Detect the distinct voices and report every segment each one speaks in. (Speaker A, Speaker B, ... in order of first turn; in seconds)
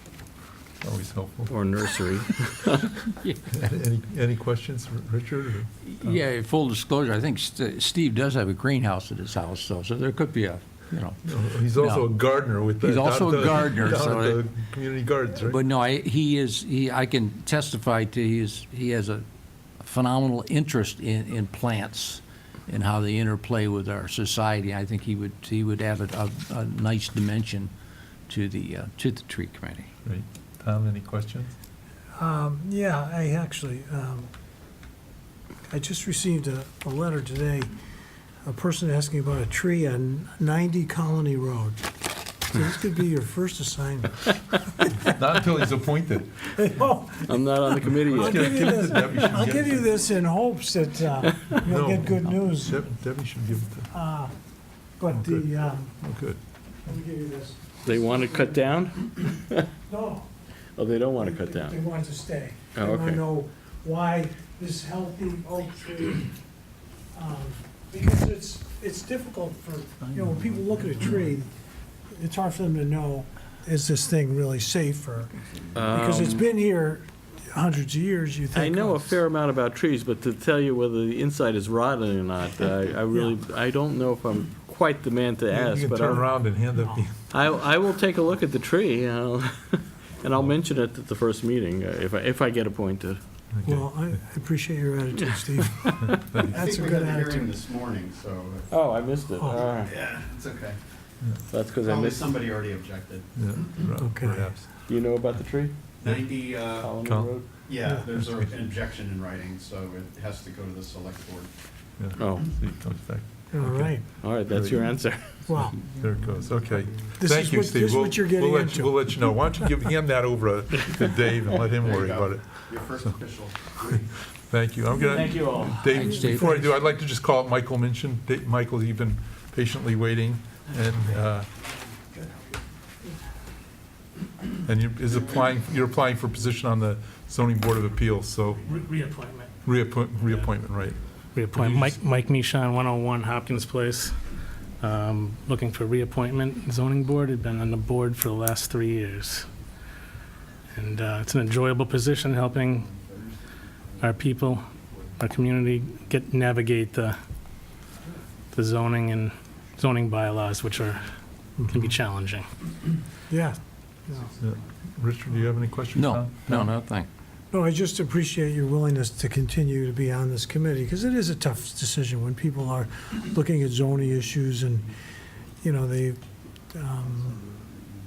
Speaker A: 0.8-1.5, 3.5-6.1, 11.2-15.6, 30.0-31.5, 45.0-46.6, 48.1-49.9, 51.6-53.9, 55.1-55.5, 56.0-56.4, 85.5-87.1, 93.5-94.1, 96.0-96.6, 103.3-104.7, 107.0-107.4, 112.0-115.2, 115.8-123.1, 124.5-131.5, 134.6-138.7, 139.6-141.0, 141.6-141.9, 164.4-166.7
Speaker B: 1.5-3.0, 47.2-49.1, 57.8-59.6, 60.8-61.8, 62.8-63.2, 75.7-76.5, 78.5-86.5, 87.3-93.2, 98.7-99.9, 101.5-102.5, 104.9-105.9, 106.7-107.5, 112.2-112.7, 114.2-115.3, 125.0-125.8
Speaker C: 3.2-3.5, 5.9-14.4, 15.4-19.2, 19.8-27.7, 28.3-29.9, 125.8-126.7, 165.9-167.1
Speaker D: 32.2-34.3, 35.7-37.7, 38.4-41.8, 42.4-44.9, 46.5-52.8, 53.9-54.3, 54.9-56.0, 56.9-58.6, 59.8-60.3, 61.2-66.3, 67.1-71.5, 72.1-75.3, 75.9-79.1, 93.7-97.5, 104.0-104.5, 113.5-114.0, 115.5-115.8, 117.2-119.7, 163.3-164.3, 167.5-174.9, 175.6-176.2, 176.7-177.4
Speaker E: 96.5-98.7, 99.8-100.8, 101.8-103.7, 106.0-106.9, 107.7-111.5, 121.8-124.0
Speaker F: 138.7-139.5, 141.3-144.2, 144.8-149.5, 150.7-152.9, 154.0-157.2, 158.5-162.5